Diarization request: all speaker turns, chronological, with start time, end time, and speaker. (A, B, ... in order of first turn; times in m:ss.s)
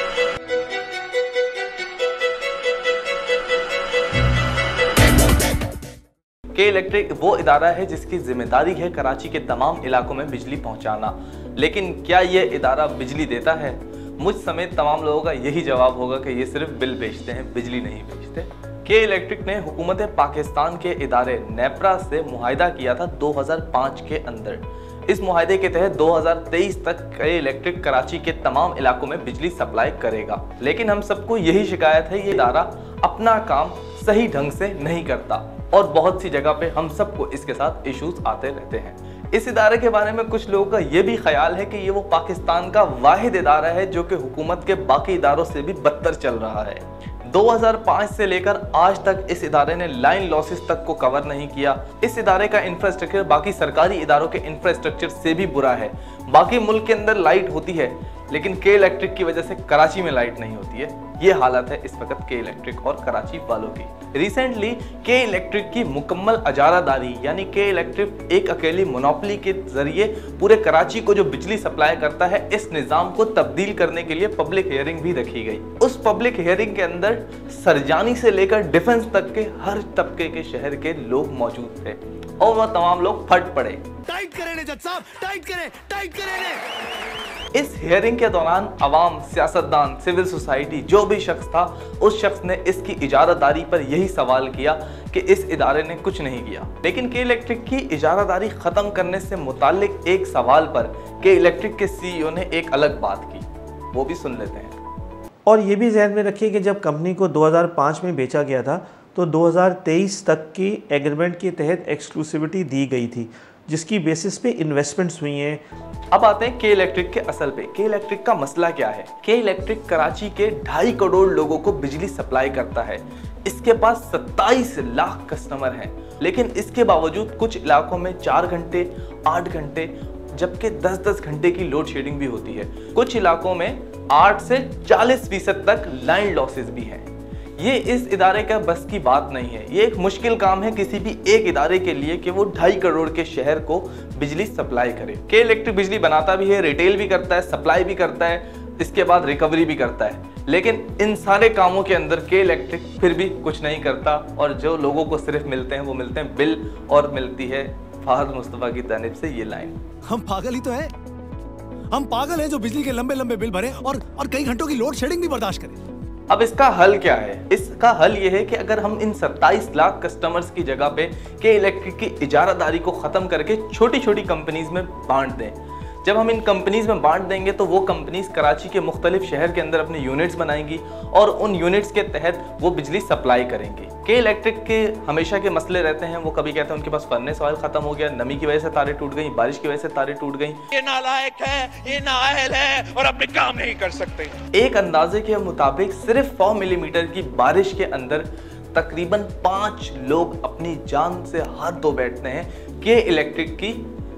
0:06.5-1:23.9 A
1:24.1-1:26.6 B
1:27.5-1:44.8 A
1:45.4-1:55.6 C
1:56.1-2:17.1 A
2:17.6-2:39.8 A
2:40.1-2:40.9 B
2:41.9-2:45.8 B
2:46.3-3:10.6 A
3:10.7-3:14.4 D
3:14.5-3:23.9 A